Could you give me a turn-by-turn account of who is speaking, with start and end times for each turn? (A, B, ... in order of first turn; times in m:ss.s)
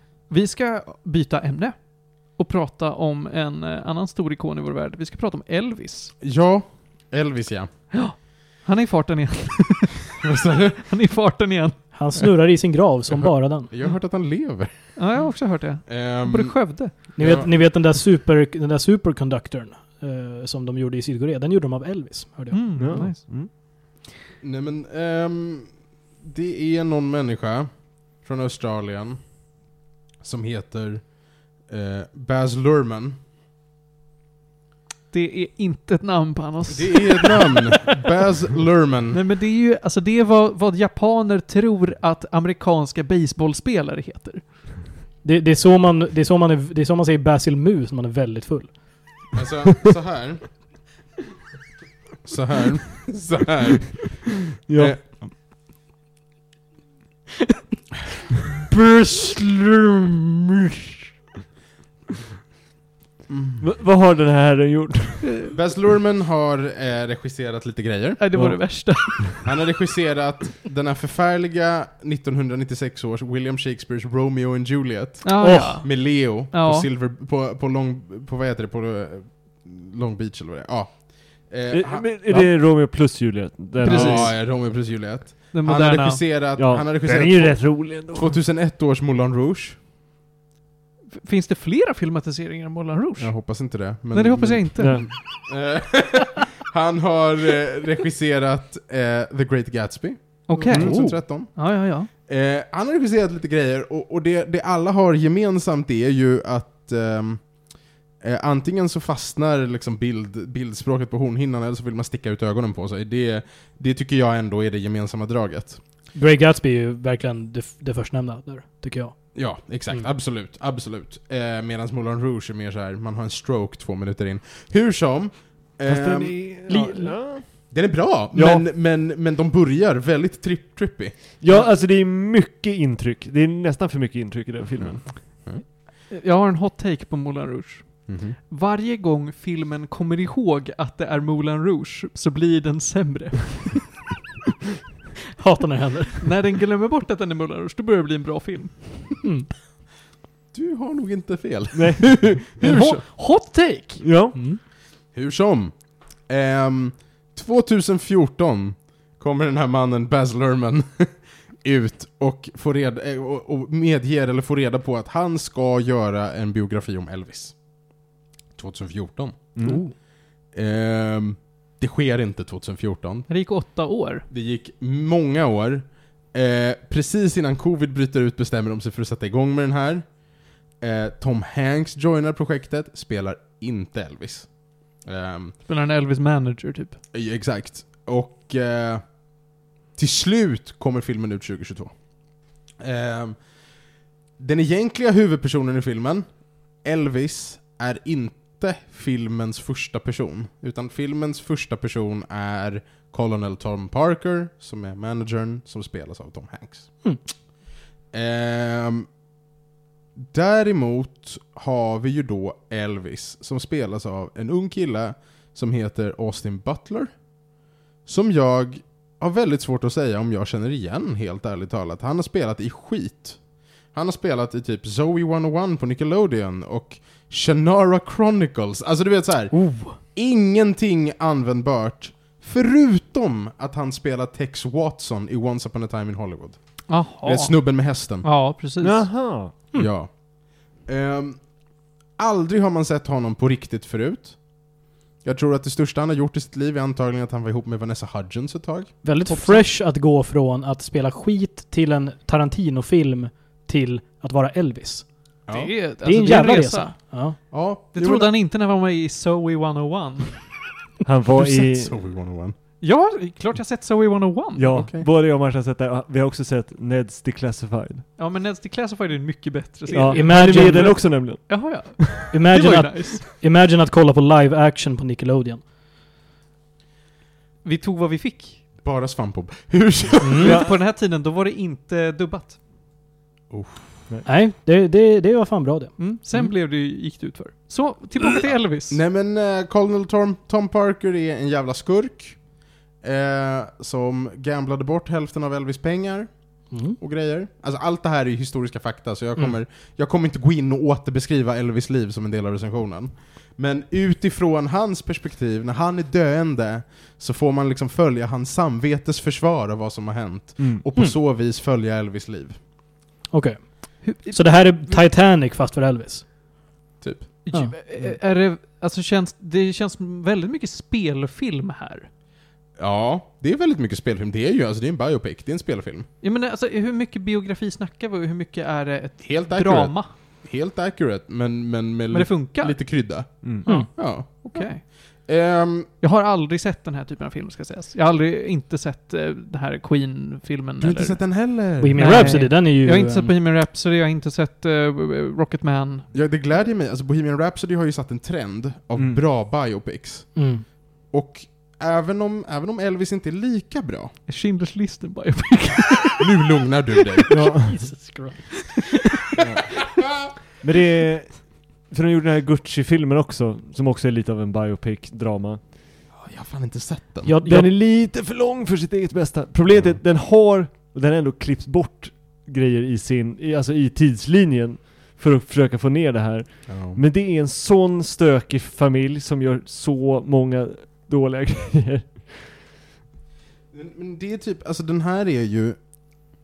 0:00.3-0:06.1 A
0:06.2-0:07.9 B
0:07.9-0:11.9 A
0:10.3-0:10.8 B
0:11.9-0:13.7 C
0:13.1-0:15.2 B
0:14.9-0:17.0 A
0:15.8-0:17.5 B
0:17.2-0:23.0 C
0:22.5-0:23.5 A
0:22.8-0:23.5 D
0:24.4-0:33.2 B
0:35.1-0:37.8 A
0:36.7-0:39.2 B
0:39.1-0:44.7 A
0:45.2-0:49.3 C
0:49.3-0:50.9 B
0:52.2-0:55.0 B
0:54.6-0:55.3 D
0:58.7-0:59.4 C
1:03.3-1:03.6 B
1:03.6-1:05.4 D
1:05.5-1:08.2 B
1:08.2-1:09.4 A
1:08.3-1:09.3 D
1:09.4-1:22.5 B
1:15.2-1:16.8 A
1:15.4-1:15.8 C
1:21.7-1:24.3 D
1:23.8-1:24.7 A
1:23.8-1:29.8 B
1:25.5-1:26.2 A
1:26.6-1:28.4 D
1:31.1-1:35.2 A
1:33.2-1:55.8 B
1:34.8-1:35.1 D
1:40.5-1:42.1 A
1:40.7-1:41.2 D
1:56.1-2:00.0 C
1:59.3-2:06.6 B
2:05.9-2:08.6 D
2:06.7-2:07.4 C
2:07.7-2:11.4 B
2:11.4-2:15.5 D
2:14.8-2:15.6 B
2:15.6-2:24.0 A
2:18.1-2:18.4 B
2:25.4-2:26.3 C
2:26.2-2:29.2 A
2:30.5-2:33.0 B
2:31.7-2:32.3 D
2:32.6-2:34.1 A
2:34.0-2:34.4 D
2:34.3-2:34.6 C
2:35.0-2:53.5 B
2:49.6-2:49.8 D
2:49.6-2:49.9 C
2:53.3-2:54.2 A
2:54.3-3:05.6 B
3:05.6-3:07.0 A
3:07.1-3:27.0 B
3:28.1-3:29.1 B
3:30.2-3:37.4 B
3:38.0-3:58.3 B
3:56.9-3:59.2 A
3:58.8-3:59.8 D
3:59.7-4:09.6 B
4:09.0-4:15.4 C
4:09.3-4:09.6 A
4:15.5-4:15.7 B
4:15.5-4:17.4 A
4:16.0-4:17.4 C
4:17.5-4:18.3 B
4:17.9-4:20.6 A
4:21.0-4:22.0 D
4:21.3-4:22.6 B
4:22.8-4:24.7 A
4:24.6-4:28.0 D
4:24.7-4:25.1 B
4:28.2-4:33.2 A
4:29.9-4:32.1 D
4:30.1-4:31.2 C
4:32.3-4:35.6 C
4:37.6-4:38.6 A
4:38.8-4:40.6 B
4:40.2-4:40.6 C
4:40.4-4:42.6 A
4:40.4-4:40.7 D
4:43.5-4:44.0 B
4:44.2-4:45.9 C
4:46.0-4:49.0 A
4:48.5-5:12.6 B
4:56.7-4:57.0 C
5:13.3-5:16.3 C
5:14.0-5:15.1 A
5:17.0-5:17.5 B
5:17.4-5:22.1 A
5:22.8-5:26.1 B
5:26.2-5:30.1 A
5:29.2-5:35.9 B
5:32.1-5:35.3 A
5:36.0-5:46.1 A
5:40.8-5:42.4 B
5:41.8-5:43.3 C
5:46.1-5:54.2 B
5:49.0-5:49.2 D
5:50.3-5:50.6 C
5:54.2-5:56.3 A
5:56.2-5:57.6 B
5:57.3-5:58.0 D
5:57.7-5:58.8 C
5:59.4-5:59.9 D
6:00.5-6:05.8 D
6:06.1-6:07.4 B
6:07.2-6:07.7 C
6:07.4-6:22.5 D
6:09.7-6:10.0 B
6:16.6-6:17.0 B
6:23.7-6:25.9 B